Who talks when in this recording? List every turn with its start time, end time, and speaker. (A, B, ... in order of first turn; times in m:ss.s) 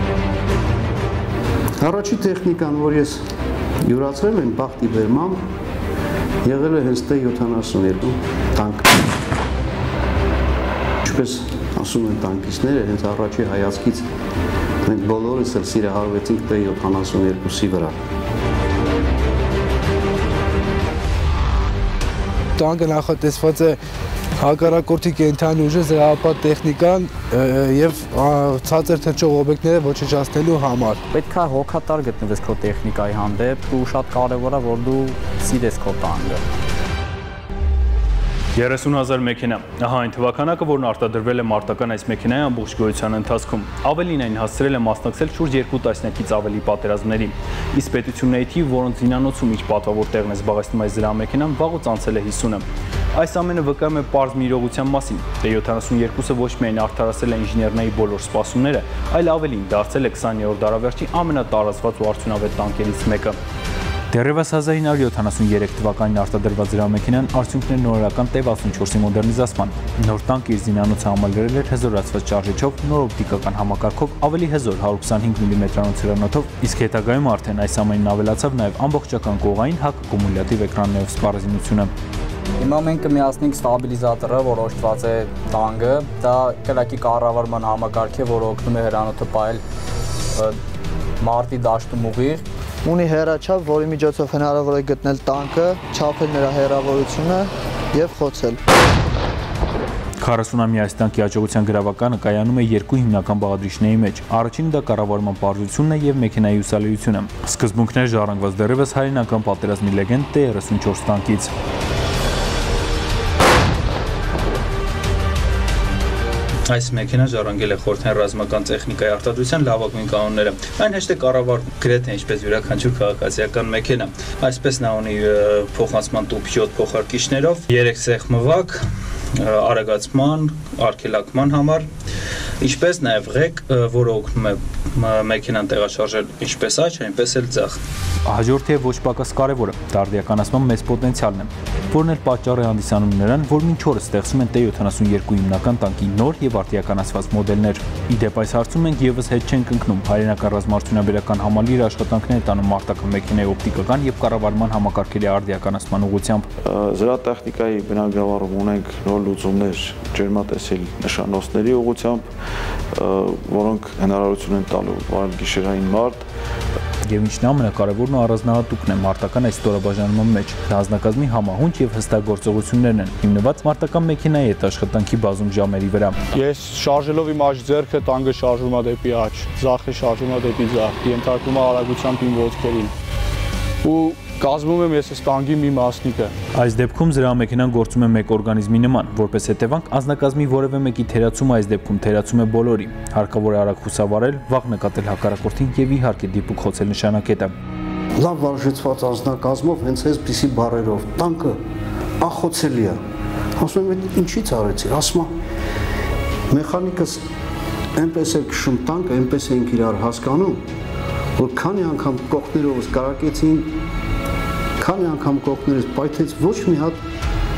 0:01.8-0:03.2 A
0:03.8-0:05.4 A
0:06.4-0:08.9 A
0:11.1-0:14.1 A
0:14.8-0:18.0 A
0:22.6-0:23.7 B
0:24.4-0:30.9 B
0:31.1-0:36.4 C
0:38.6-1:03.4 D
1:04.1-1:21.9 D
1:22.6-1:29.6 C
1:31.2-1:32.4 C
1:32.8-1:38.6 E
1:40.2-1:51.5 D
1:56.7-2:11.9 D
2:12.6-2:36.5 D
2:36.7-2:42.3 F
2:43.0-2:46.3 F
2:47.0-2:56.3 D
2:56.3-3:02.9 G
3:03.8-3:06.3 G
3:06.5-3:17.5 D
3:18.2-3:21.6 A
3:22.2-3:23.0 A
3:23.6-3:25.3 A
3:26.5-3:27.2 A
3:28.0-3:30.6 A
3:31.4-3:33.7 A
3:34.8-3:37.0 A